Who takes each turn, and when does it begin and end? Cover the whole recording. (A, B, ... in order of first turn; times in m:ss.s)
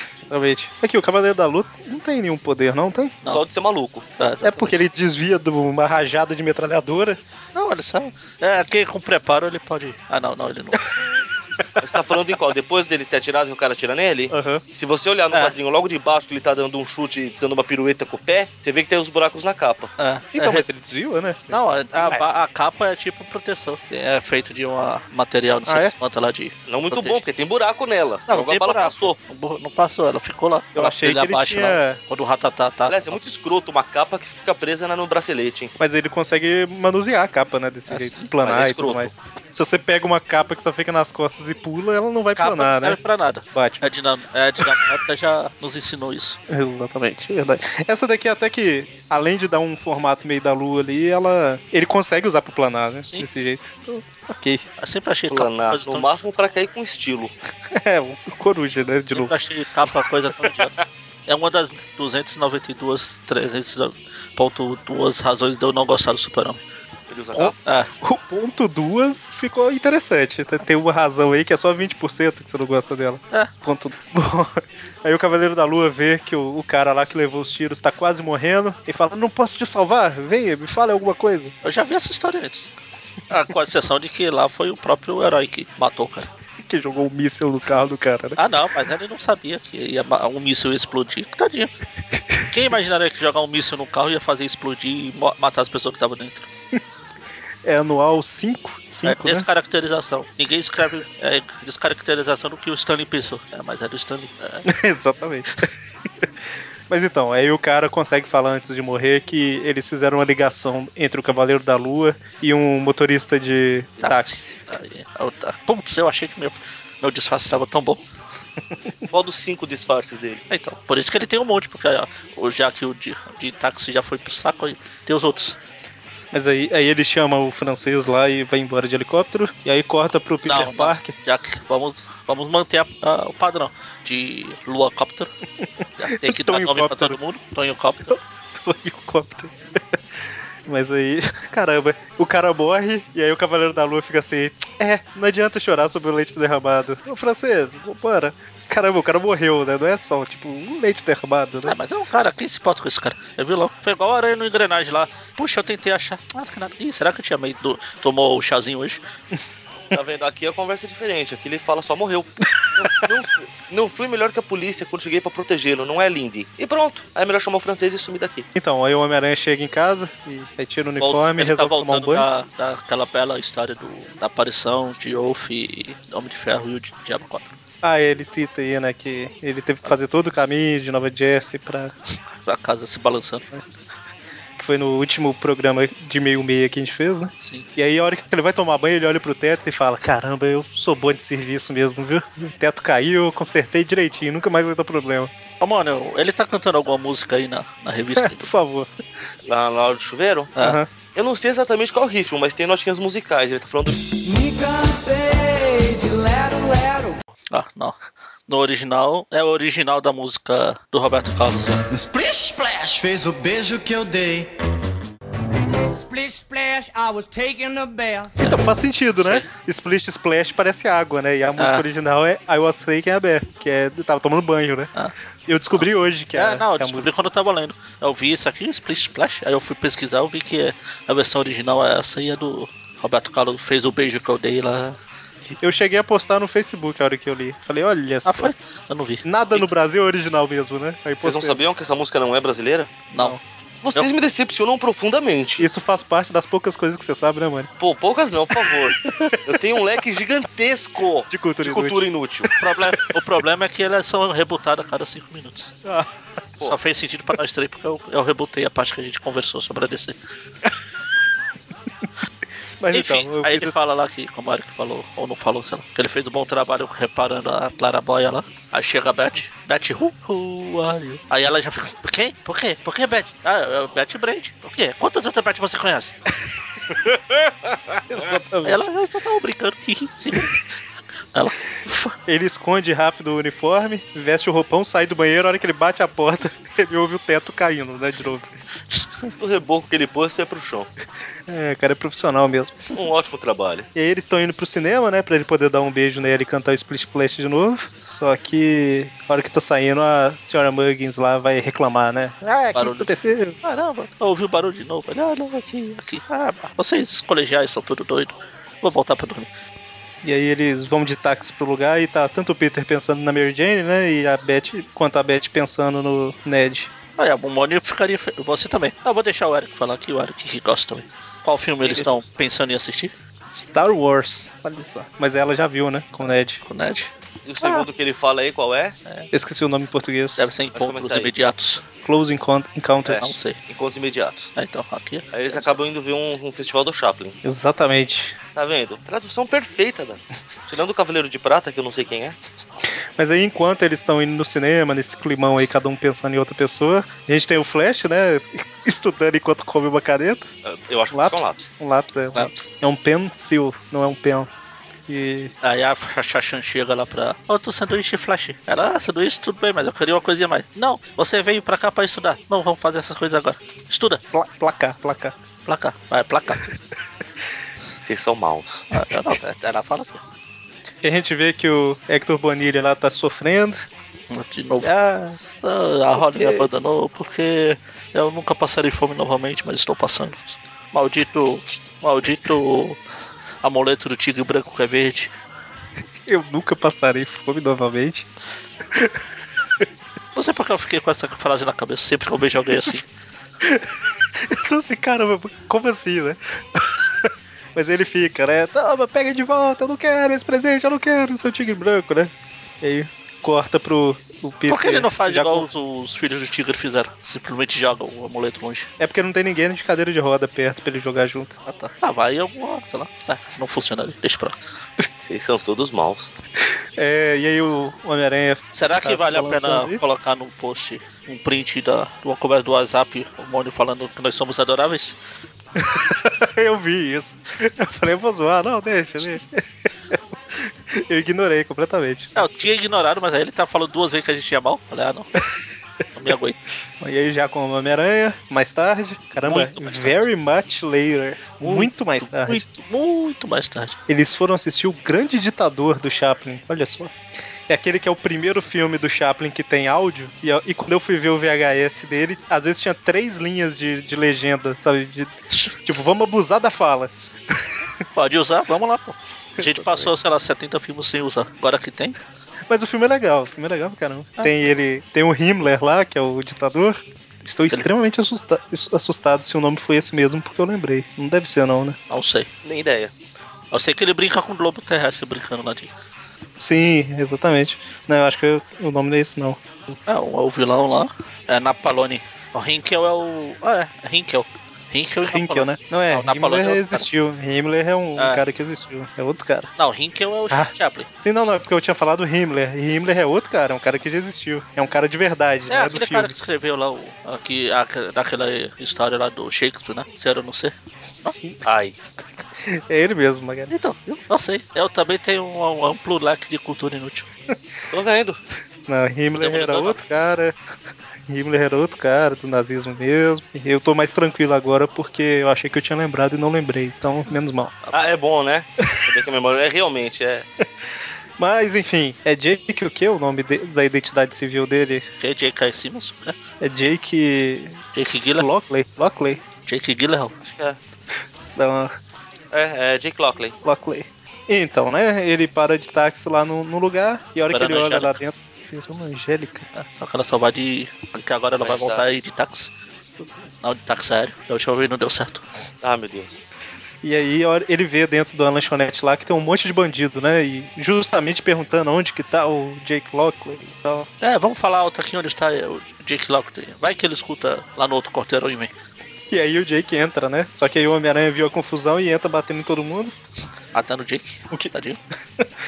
0:00.3-0:03.2 A
0:03.3-0:04.1 B
0:04.2-0:04.8 C
0:04.4-0:07.2 A
0:07.6-0:10.9 C
0:11.8-0:19.9 B
0:14.3-0:14.6 A
0:20.0-0:20.7 C
0:20.3-0:22.2 A
0:21.5-0:27.2 C
0:25.7-0:25.9 A
0:26.7-0:29.2 B
0:28.3-0:33.2 C
0:30.8-0:32.0 A
0:32.9-0:35.7 B
0:35.8-0:43.0 A
0:37.9-0:38.3 C
0:38.4-0:39.2 B
0:42.4-0:46.4 C
0:43.5-0:43.9 A
0:46.5-0:54.7 A
0:54.8-0:56.1 C
0:55.3-0:57.3 B
0:57.7-0:59.4 A
0:59.1-1:00.7 C
1:01.3-1:06.6 C
1:07.1-1:07.6 B
1:07.4-1:21.5 A
1:07.6-1:07.9 C
1:21.6-1:22.7 C
1:23.3-1:26.3 C
1:26.6-1:28.4 A
1:28.4-1:31.7 C
1:32.5-1:36.5 C
1:37.6-1:39.5 A
1:39.0-1:44.7 C
1:44.7-1:45.7 A
1:46.9-1:54.6 A
1:54.0-1:58.0 C
1:59.1-2:00.4 B
2:00.5-2:05.6 C
2:06.3-2:11.1 A
2:10.4-2:15.3 C
2:16.0-2:18.1 C
2:16.1-2:17.2 A
2:18.1-2:20.0 A
2:20.7-2:31.8 A
2:31.6-2:39.0 C
2:39.9-2:48.5 B
2:48.6-2:52.3 A
2:51.0-2:57.5 C
2:57.8-3:02.0 A
3:02.4-3:03.4 C
3:04.6-3:15.3 A
3:07.4-3:07.7 C
3:15.6-3:18.5 C
3:18.2-3:18.9 A
3:19.4-3:20.5 B
3:20.6-3:20.9 A
3:21.2-3:24.0 B
3:24.1-3:27.2 D
3:27.5-3:28.0 C
3:28.5-3:31.8 C
3:31.9-3:34.5 E
3:35.9-3:38.4 D
3:38.4-3:44.9 A
3:39.2-3:39.5 C
3:41.6-3:41.8 C
3:45.5-3:47.2 A
3:45.8-3:55.0 C
3:55.6-3:58.5 A
3:58.2-3:59.7 C
3:59.2-4:01.6 A
4:01.2-4:03.0 B
4:03.1-4:03.4 C
4:03.8-4:05.7 B
4:05.6-4:07.7 A
4:07.8-4:12.5 B
4:08.6-4:09.4 A
4:11.3-4:12.0 A
4:12.6-4:15.7 C
4:15.8-4:16.1 A
4:16.6-4:20.2 C
4:22.8-4:23.7 A
4:22.9-4:36.1 C
4:38.1-4:38.9 A
4:38.6-4:40.6 C
4:41.3-4:42.2 C
4:42.3-4:48.6 A
4:49.4-4:50.9 B
4:51.5-4:52.9 A
4:52.9-4:53.9 B
4:54.0-5:03.6 A
5:02.7-5:09.5 C
5:10.2-5:16.9 A
5:17.2-5:23.1 C
5:23.5-5:26.6 A
5:26.2-5:27.1 C
5:27.4-5:29.0 B
5:29.3-5:30.5 A
5:30.4-5:31.8 C
5:30.8-5:31.3 B
5:32.0-5:33.3 A
5:33.1-5:34.5 B
5:33.1-5:33.6 C
5:34.6-5:35.8 C
5:35.3-5:37.4 B
5:37.4-5:38.4 A
5:38.6-5:42.4 B
5:43.2-5:50.5 A
5:50.6-5:51.7 B
5:51.1-5:54.5 A
5:55.1-5:55.5 A
5:55.6-6:04.2 C
6:04.3-6:05.4 A
6:05.7-6:06.7 C
6:08.0-6:08.8 B
6:08.9-6:10.2 C
6:11.0-6:13.8 A
6:14.3-6:14.9 C
6:14.8-6:15.4 A
6:15.6-6:23.0 C
6:16.2-6:16.7 A
6:23.6-6:25.3 C
6:26.3-6:28.3 A
6:28.9-6:29.2 A
6:30.3-6:33.1 C
6:33.6-6:42.3 A
6:42.8-6:45.7 A
6:44.7-6:48.9 C
6:49.0-6:51.5 A
6:51.7-6:54.6 C
6:55.2-6:56.3 B
6:57.0-7:00.0 A
6:58.7-7:05.2 C
7:05.8-7:12.5 A
7:12.4-7:15.3 C
7:16.1-7:16.6 C
7:17.0-7:22.6 A
7:19.4-7:20.2 C
7:21.6-7:24.0 C
7:24.1-7:27.1 A
7:27.7-7:35.3 A
7:35.5-7:35.8 C
7:35.8-7:37.8 A
7:38.2-7:42.2 C
7:39.6-7:40.1 A
7:42.7-7:52.0 A
7:44.4-7:44.7 C
7:52.1-7:52.5 C
7:52.6-7:53.1 B
7:53.7-7:55.9 C
7:56.6-7:59.6 A
7:59.9-8:07.1 C
8:05.3-8:09.7 A
8:08.2-8:08.4 C
8:09.8-8:11.1 C
8:10.5-8:16.4 A
8:15.7-8:21.3 C
8:21.3-8:21.6 A
8:21.6-8:22.0 B
8:22.6-8:23.7 A
8:23.7-8:27.3 C
8:27.9-8:28.4 B
8:28.9-8:30.5 A
8:29.4-8:30.0 C
8:31.3-8:37.7 A
8:37.9-8:40.5 B
8:41.4-8:45.1 A
8:45.2-8:46.4 C
8:46.6-8:47.8 A
8:47.9-8:48.5 C
8:48.4-8:49.4 A
8:49.7-8:50.3 C
8:50.4-8:50.8 B
8:51.6-8:51.9 A
8:52.5-8:53.6 B
8:53.6-8:59.7 A
8:57.5-8:58.2 C
8:59.7-9:02.7 C
9:01.6-9:02.2 B
9:03.0-9:03.5 A
9:03.6-9:05.4 C
9:05.8-9:06.4 B
9:07.0-9:14.1 A
9:14.2-9:18.7 C
9:19.3-9:23.1 A
9:23.7-9:25.0 C